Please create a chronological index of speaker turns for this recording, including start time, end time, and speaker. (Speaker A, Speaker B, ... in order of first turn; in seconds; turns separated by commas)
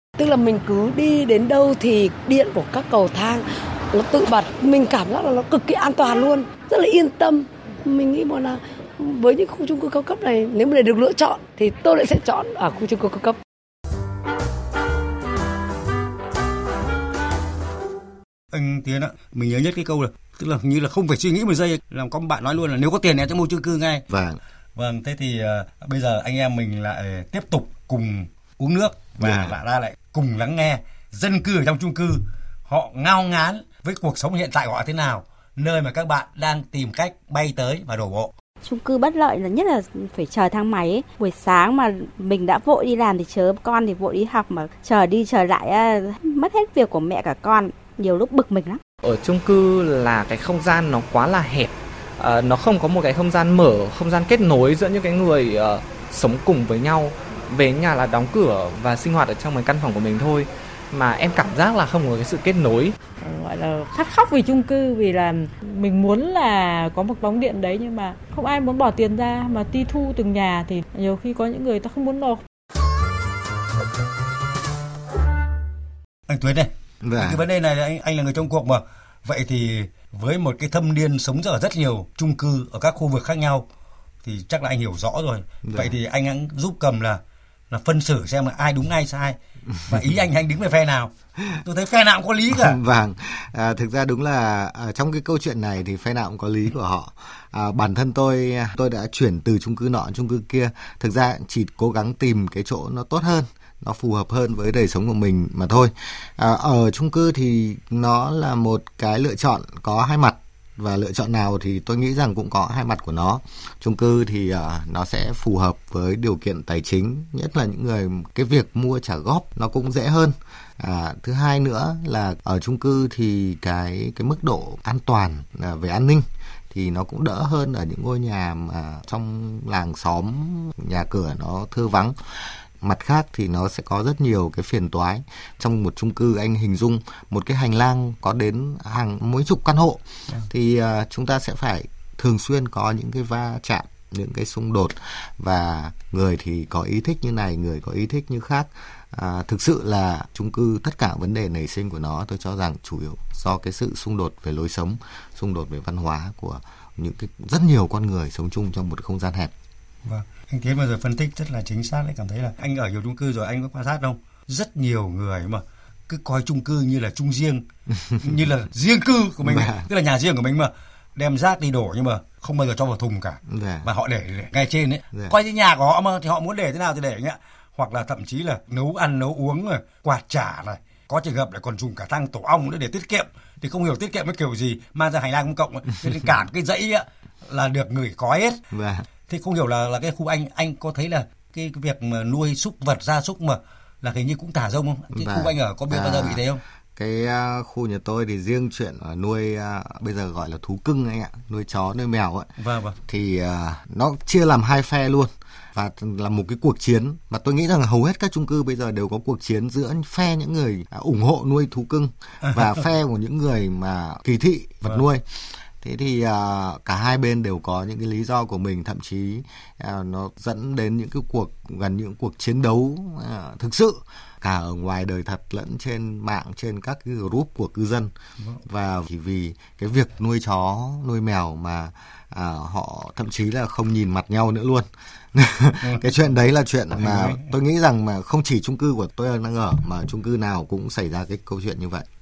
Speaker A: 0.2-13.4, Speaker B: 18.5-24.0, Speaker C: 24.1-24.4, Speaker B: 24.8-38.3, Speaker C: 29.2-29.6, Speaker D: 38.6-48.8, Speaker E: 49.0-63.0, Speaker F: 63.2-72.4, Speaker B: 76.3-83.7, Speaker C: 77.0-77.4, Speaker B: 84.2-87.2, Speaker C: 85.6-86.0, Speaker B: 87.7-92.8, Speaker C: 92.5-159.5, Speaker B: 160.1-167.6, Speaker C: 167.9-168.4, Speaker B: 168.2-188.6, Speaker C: 169.4-169.9, Speaker C: 173.5-173.9, Speaker C: 188.7-189.1, Speaker B: 189.3-196.6, Speaker C: 195.1-196.4, Speaker C: 197.0-202.5, Speaker B: 202.6-203.0, Speaker C: 203.1-228.1, Speaker B: 212.4-212.8, Speaker C: 228.6-242.1, Speaker B: 236.9-237.5